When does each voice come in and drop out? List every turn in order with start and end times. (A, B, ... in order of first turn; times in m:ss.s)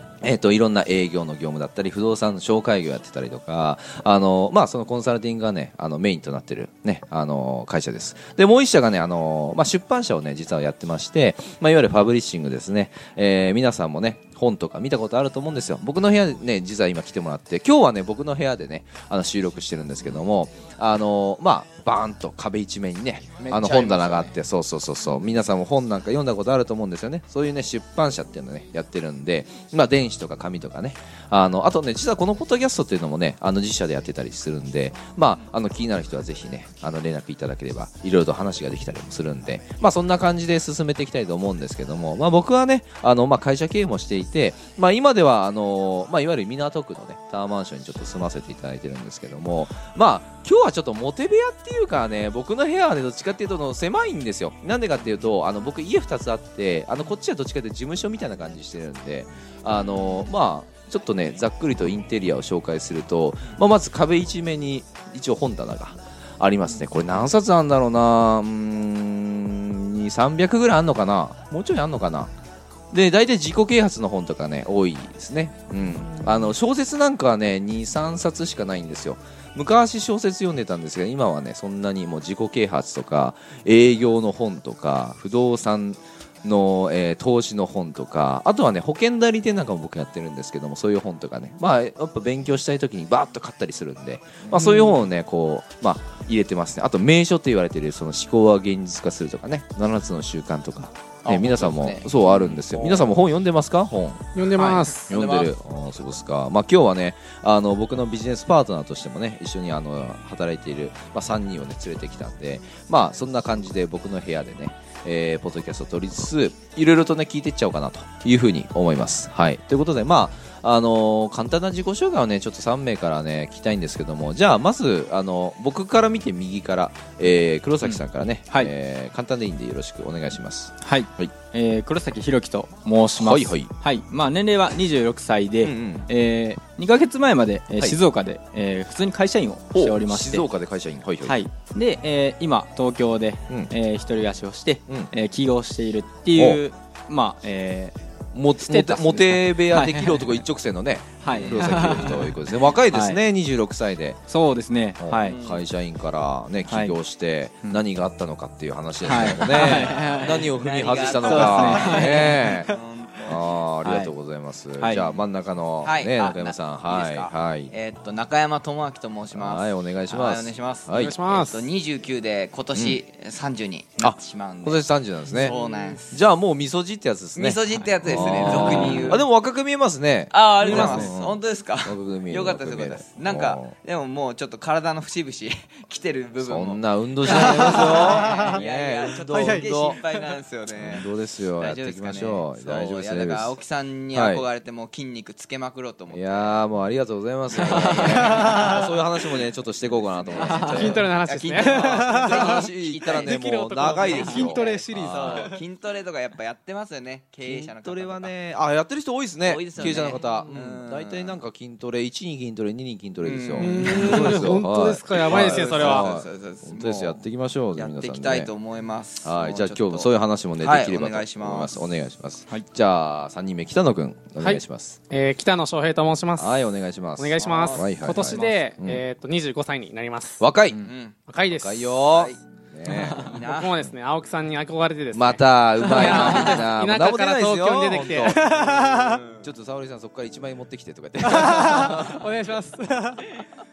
0:00.2-1:12.3 A
0:23.4-0:24.3 B
0:59.8-1:00.1 B
1:12.9-1:44.4 A
1:15.9-1:16.5 C
1:34.5-1:34.8 B
1:41.2-1:43.2 B
1:44.3-1:45.1 C
1:44.5-1:45.5 B
1:45.1-2:11.3 A
2:07.8-2:08.7 D
2:10.8-2:20.5 D
2:13.2-2:13.7 A
2:15.6-2:16.1 A
2:19.7-2:21.4 A
2:21.2-2:28.0 D
2:26.3-2:26.6 A
2:28.3-2:34.2 A
2:28.6-2:30.4 D
2:31.2-2:33.2 D
2:31.3-2:31.8 B
2:34.3-2:35.4 D
2:35.0-2:42.7 A
2:35.2-2:35.6 B
2:36.7-2:37.0 D
2:39.0-2:40.5 D
2:39.2-2:43.6 B
2:41.1-2:42.6 D
2:43.2-2:47.7 A
2:43.8-2:44.1 D
2:44.8-2:45.1 D
2:45.8-2:56.2 B
2:49.3-2:51.2 A
2:50.9-2:51.6 C
2:52.7-2:53.0 A
2:54.0-2:55.6 A
2:55.5-2:55.8 C
2:56.1-3:03.7 A
2:57.3-2:59.2 B
2:58.5-2:59.0 C
3:00.3-3:16.6 B
3:00.7-3:01.0 C
3:06.4-3:10.0 A
3:07.3-3:08.6 C
3:09.3-3:10.2 C
3:10.7-3:13.6 A
3:14.1-3:14.4 A
3:16.1-3:21.1 A
3:17.5-3:18.8 B
3:17.7-3:18.2 D
3:18.3-3:18.9 C
3:19.4-3:28.3 B
3:20.4-3:21.0 D
3:20.7-3:25.6 C
3:21.6-3:25.5 A
3:27.4-3:38.5 A
3:29.4-3:31.4 B
3:30.0-3:30.5 C
3:33.2-3:34.6 B
3:33.6-3:36.1 C
3:35.1-3:41.8 B
3:39.2-3:45.0 A
3:44.4-3:50.4 C
3:46.4-3:49.0 A
3:47.4-3:48.5 B
3:50.4-3:50.9 A
3:50.8-3:51.2 B
3:51.3-3:52.0 C
3:51.4-3:53.3 A
3:52.1-3:52.4 B
3:53.2-3:59.2 C
3:53.2-3:53.8 B
3:55.1-3:58.8 A
3:55.9-3:56.6 B
3:58.4-3:59.5 B
3:59.4-4:02.3 A
4:01.2-4:03.4 C